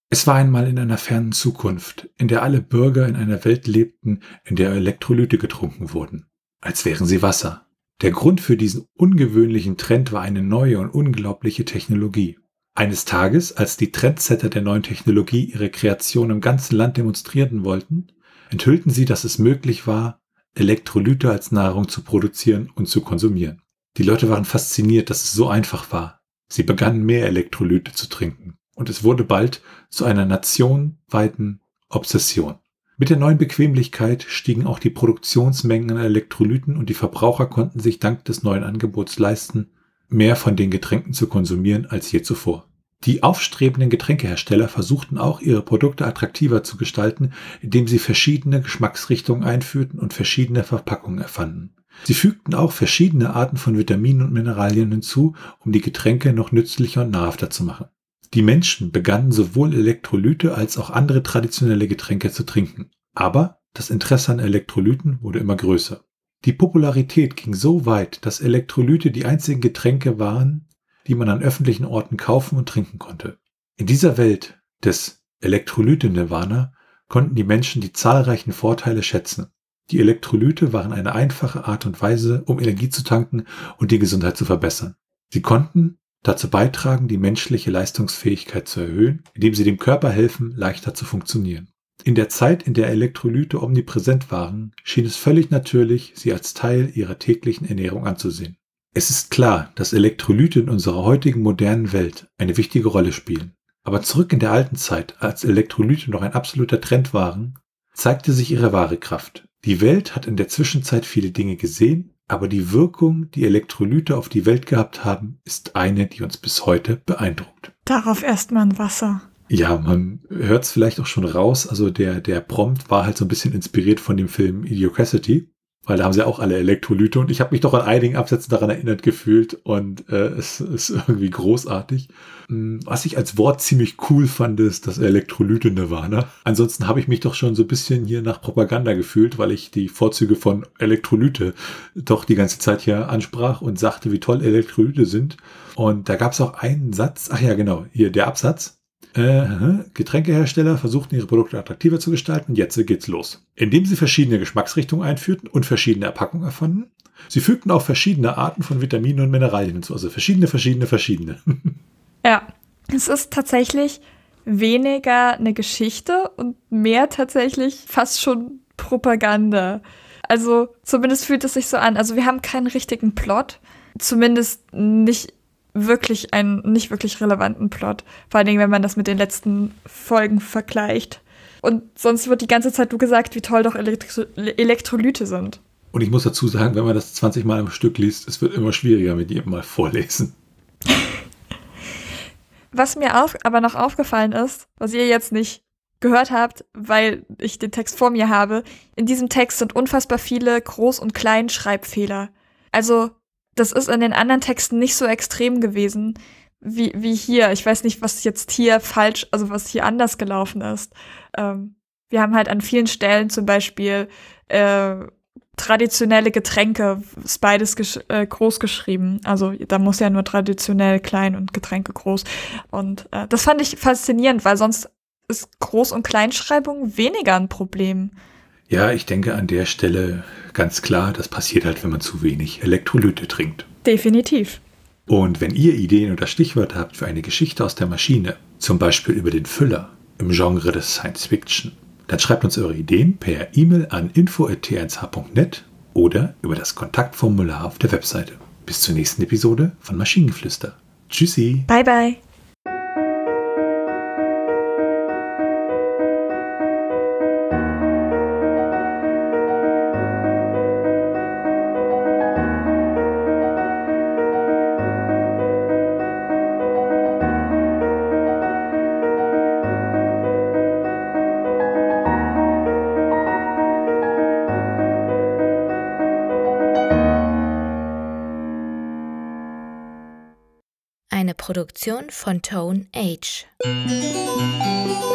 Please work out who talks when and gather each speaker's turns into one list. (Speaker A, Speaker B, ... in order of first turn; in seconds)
Speaker A: 0.1-117.7, 119.5-161.8, 185.9-190.3, 228.7-233.7, 235.1-251.7
Speaker B: 117.9-119.2, 162.2-185.6, 192.7-228.1, 233.8-234.6, 251.7-252.2
Speaker C: 281.1-283.5